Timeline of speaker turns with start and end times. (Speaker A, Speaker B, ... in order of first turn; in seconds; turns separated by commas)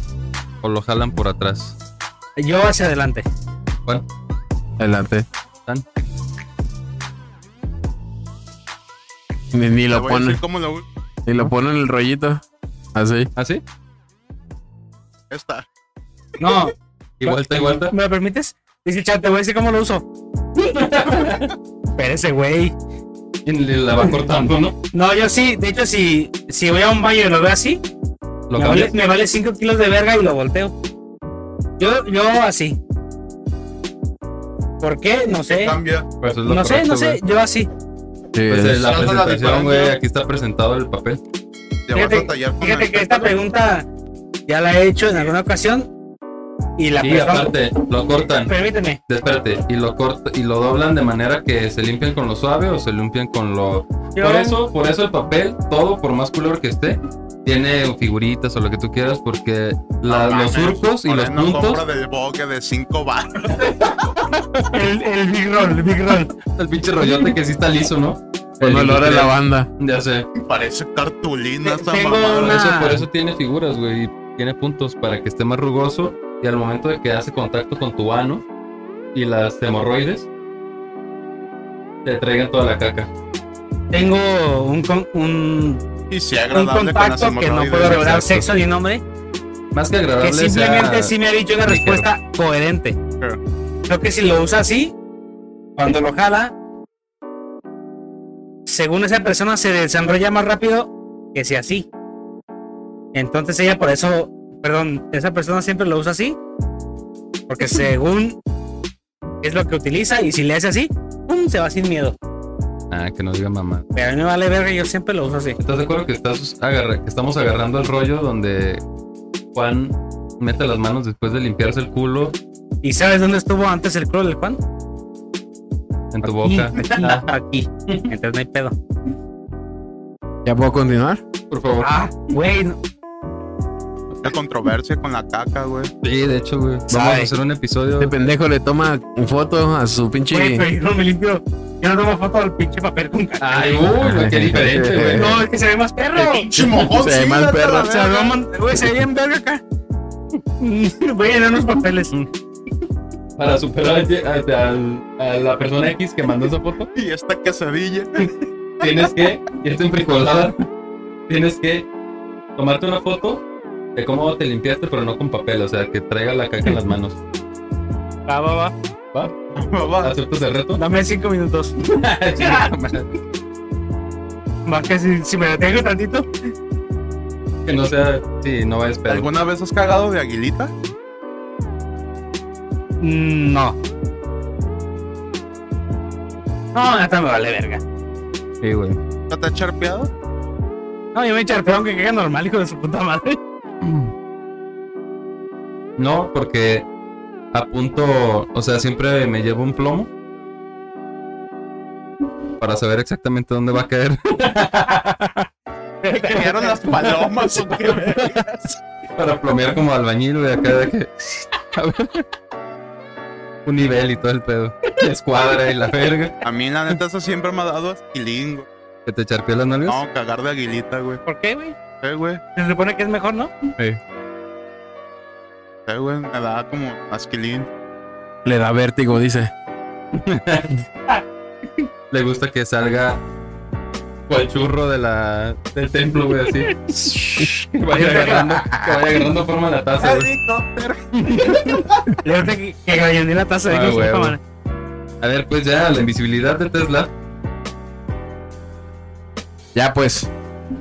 Speaker A: 0.6-1.7, Speaker B: 2.4-3.3, Speaker C: 4.8-5.2, Speaker C: 9.5-10.4, Speaker D: 9.9-10.8, Speaker C: 11.2-12.4, Speaker C: 12.9-13.3, Speaker A: 13.3-13.6, Speaker D: 15.3-15.7, Speaker B: 16.4-17.4, Speaker A: 17.2-17.9, Speaker B: 17.9-20.1, Speaker A: 20.6-21.5, Speaker B: 22.0-22.7, Speaker A: 23.4-24.8, Speaker B: 24.9-27.8, Speaker A: 28.5-28.9, Speaker B: 28.6-30.7, Speaker B: 31.8-32.8, Speaker B: 34.8-35.8, Speaker D: 35.5-36.1, Speaker A: 36.2-37.2, Speaker B: 36.5-37.7, Speaker C: 38.3-38.8, Speaker A: 38.5-41.2, Speaker D: 38.8-39.9, Speaker D: 41.9-43.3, Speaker B: 41.9-43.9, Speaker B: 44.5-45.9, Speaker B: 46.8-47.5, Speaker A: 47.0-48.5, Speaker B: 48.4-49.0, Speaker A: 49.1-61.8, Speaker B: 54.1-54.6, Speaker D: 60.1-64.2, Speaker B: 64.7-66.3, Speaker A: 66.6-70.3, Speaker C: 68.6-69.7, Speaker D: 70.4-72.5, Speaker B: 71.6-73.0, Speaker A: 72.3-78.4, Speaker A: 79.1-80.3, Speaker A: 82.0-83.1, Speaker B: 83.9-85.8, Speaker D: 86.1-88.3, Speaker B: 86.5-89.0, Speaker A: 87.8-88.5, Speaker A: 89.7-92.1, Speaker B: 90.2-93.0, Speaker B: 93.9-94.9, Speaker B: 95.8-96.5, Speaker B: 98.7-101.9, Speaker B: 103.1-106.4, Speaker B: 107.5-108.4, Speaker B: 109.4-112.2, Speaker A: 112.9-113.8, Speaker B: 113.9-115.6, Speaker A: 115.6-118.8, Speaker A: 119.5-122.3, Speaker B: 122.8-124.6, Speaker A: 126.1-127.3, Speaker B: 126.2-128.7, Speaker C: 130.4-131.2, Speaker A: 131.5-131.9, Speaker B: 131.8-132.8, Speaker D: 134.2-135.9, Speaker A: 136.0-138.2, Speaker B: 136.9-137.3, Speaker C: 138.0-140.7, Speaker B: 140.3-143.9, Speaker A: 143.4-145.4, Speaker C: 144.0-145.4, Speaker B: 145.1-146.5, Speaker D: 146.2-148.4, Speaker C: 146.6-147.9, Speaker B: 147.8-149.6, Speaker B: 150.6-152.1, Speaker A: 153.4-156.9, Speaker D: 156.9-158.3, Speaker A: 158.8-160.6, Speaker D: 158.8-159.1, Speaker A: 161.3-161.9, Speaker A: 162.6-163.4, Speaker A: 163.9-167.2, Speaker B: 168.3-168.7, Speaker A: 169.1-170.8, Speaker D: 169.5-170.1, Speaker B: 170.8-171.8, Speaker A: 171.8-173.2, Speaker B: 172.4-172.7, Speaker B: 174.7-176.3, Speaker A: 177.6-179.3, Speaker D: 179.1-180.7, Speaker B: 183.0-183.8, Speaker B: 186.7-187.8, Speaker A: 188.6-189.0, Speaker D: 189.3-190.1, Speaker B: 191.1-193.4, Speaker A: 193.8-194.1, Speaker A: 196.0-196.9, Speaker A: 197.5-200.1, Speaker A: 202.6-205.5, Speaker B: 206.0-206.8, Speaker D: 206.1-208.8, Speaker A: 206.9-208.4, Speaker A: 209.2-212.2, Speaker A: 213.6-216.4, Speaker D: 216.4-218.7, Speaker A: 219.1-220.0, Speaker D: 219.9-221.2, Speaker B: 221.2-221.8, Speaker D: 222.0-222.4, Speaker B: 222.6-223.5, Speaker D: 225.9-227.7, Speaker C: 228.4-229.5, Speaker A: 230.1-230.8, Speaker A: 232.1-233.2, Speaker A: 234.3-240.3, Speaker B: 237.4-238.6, Speaker C: 238.0-239.2, Speaker D: 240.0-242.2, Speaker A: 241.2-241.8, Speaker B: 242.2-244.4, Speaker A: 243.7-244.4, Speaker A: 245.2-247.1, Speaker C: 249.7-250.3